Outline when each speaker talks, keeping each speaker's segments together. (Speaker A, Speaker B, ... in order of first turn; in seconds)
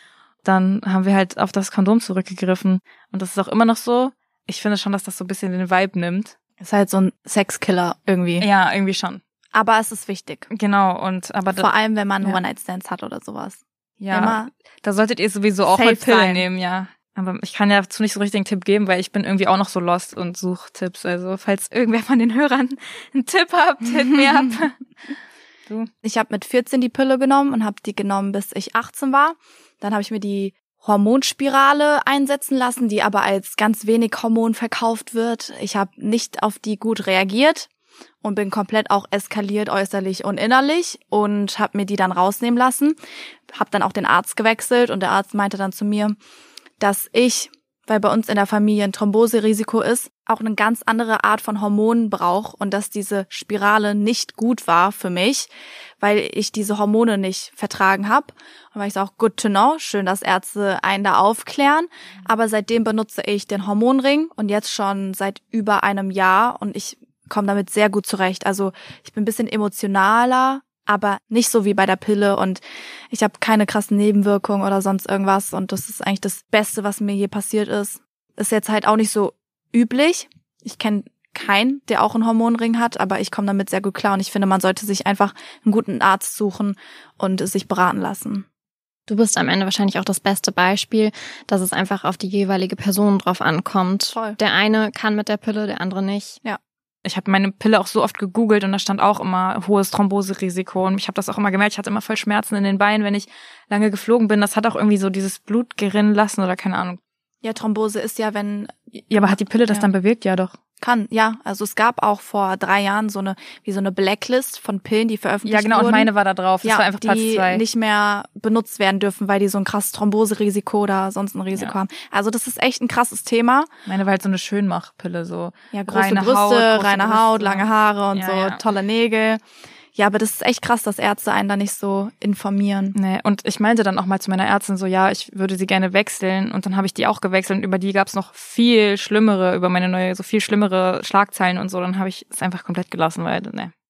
Speaker A: 0.4-6.4, 8.4-9.2, 10.5-11.7, 14.0-24.8, 97.0-107.0, 109.0-110.5, 115.5-117.6, 123.9-128.6, 132.9-143.7
Speaker B: 6.6-8.4, 9.5-10.5, 11.5-14.5, 15.7-16.4, 26.0-37.7, 38.2-43.0, 43.5-46.2, 46.8-55.5, 56.0-88.5, 94.1-94.4, 107.4-109.9, 110.8-116.1, 116.6-123.7, 125.7-129.4, 129.9-132.9
Speaker C: 89.1-96.4